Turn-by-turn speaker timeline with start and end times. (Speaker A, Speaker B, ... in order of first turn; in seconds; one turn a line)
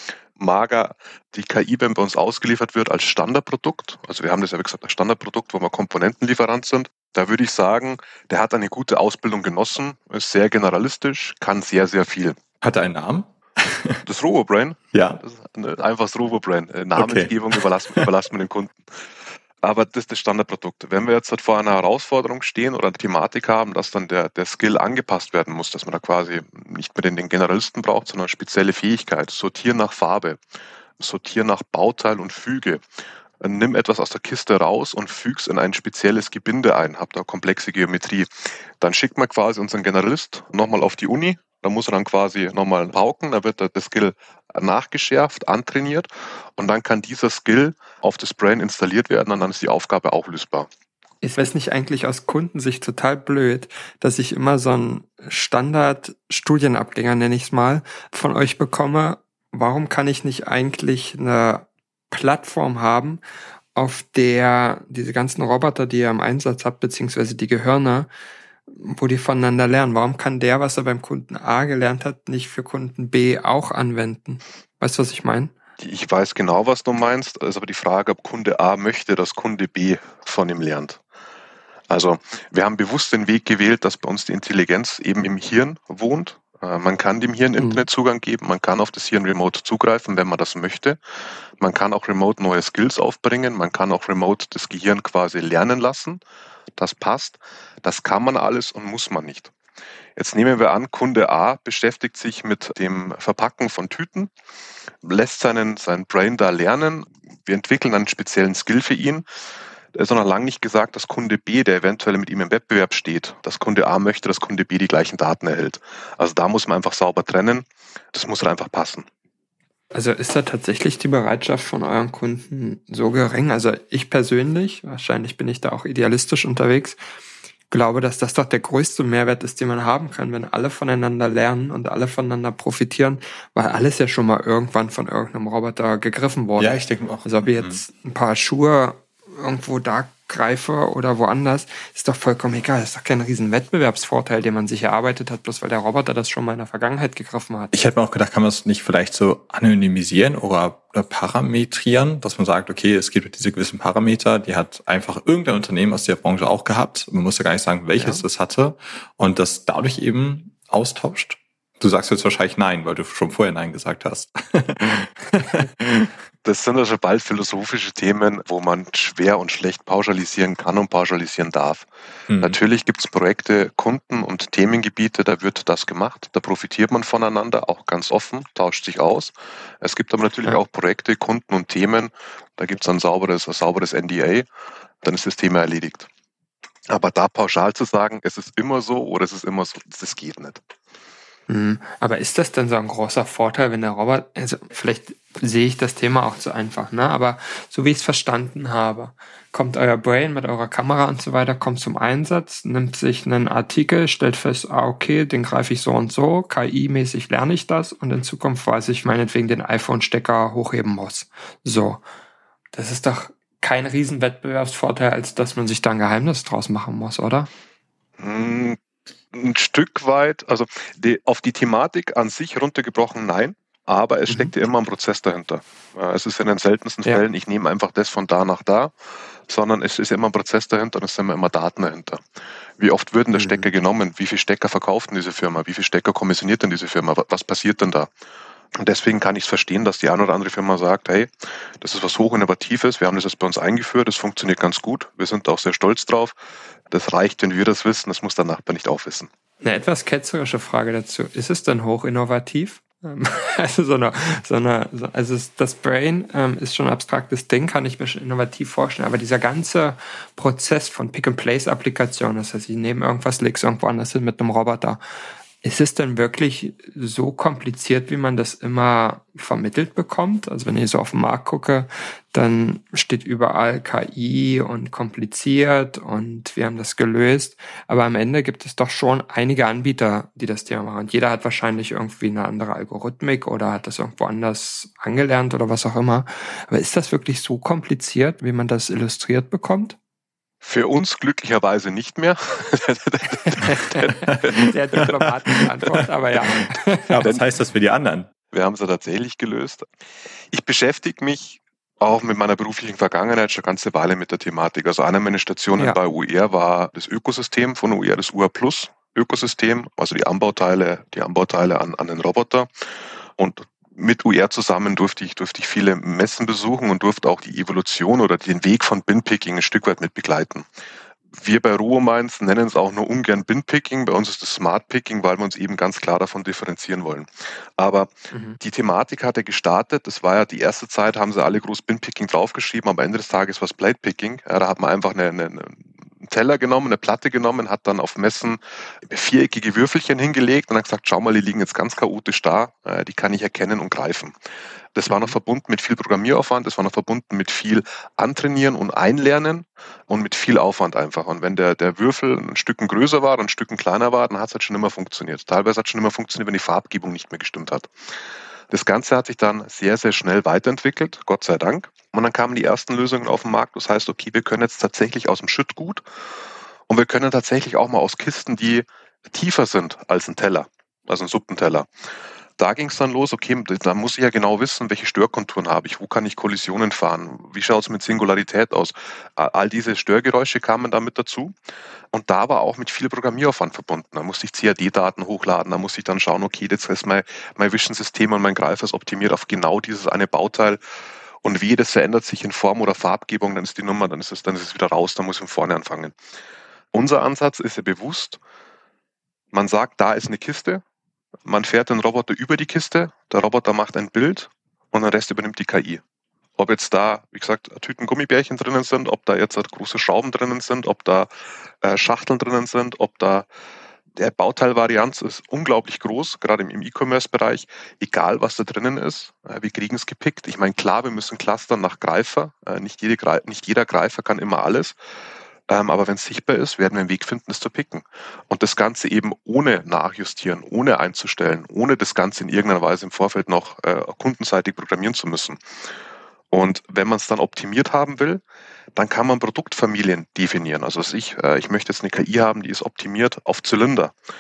Speaker A: 0.4-12.4
Speaker B: 12.6-14.0
Speaker A: 14.0-18.8
Speaker B: 14.9-15.2
Speaker B: 17.0-18.1
Speaker A: 19.6-30.4
Speaker A: 31.0-32.8
Speaker A: 33.4-50.7
Speaker C: 51.2-63.2
Speaker C: 63.8-68.1
Speaker C: 68.7-75.5
Speaker A: 75.8-81.0
Speaker A: 81.9-91.0
Speaker C: 87.6-87.8
Speaker A: 91.6-96.2
Speaker A: 96.8-99.5
Speaker A: 100.2-104.3
Speaker A: 105.0-109.2
Speaker A: 109.9-119.1
Speaker C: 119.9-127.0
Speaker C: 127.7-147.7
Speaker B: 136.6-137.8
Speaker B: 147.7-166.1
Speaker A: 166.4-171.9
Speaker B: 172.3-172.6
Speaker A: 172.4-184.5
Speaker A: 185.0-186.1
Speaker A: 186.9-190.6
Speaker C: 191.5-212.0
Speaker C: 212.7-217.5
Speaker A: 218.2-218.8
Speaker A: 219.3-228.9
Speaker A: 229.5-232.2
Speaker A: 232.8-238.1
Speaker C: 233.4-233.6
Speaker A: 238.8-241.3
Speaker A: 241.8-246.4
Speaker A: 246.9-249.3
Speaker C: 249.6-265.0
Speaker C: 265.6-290.0
Speaker A: 290.6-295.0
Speaker C: 293.4-297.2
Speaker B: 297.1-298.3
Speaker A: 298.5-299.9
Speaker A: 300.5-312.7
Speaker A: 313.4-320.6
Speaker A: 321.4-344.3
Speaker C: 328.3-328.6
Speaker A: 344.9-357.9
Speaker C: 345.1-345.3
Speaker A: 358.7-366.0
Speaker A: 366.9-371.9
Speaker A: 372.6-381.5
Speaker A: 382.1-390.8
Speaker A: 391.4-396.1
Speaker A: 396.9-398.4
Speaker A: 399.5-400.8
Speaker A: 401.5-406.0
Speaker A: 406.6-411.3
Speaker A: 411.8-413.5
Speaker A: 414.2-425.0
Speaker A: 425.7-435.6
Speaker A: 436.5-438.4
Speaker A: 438.9-444.1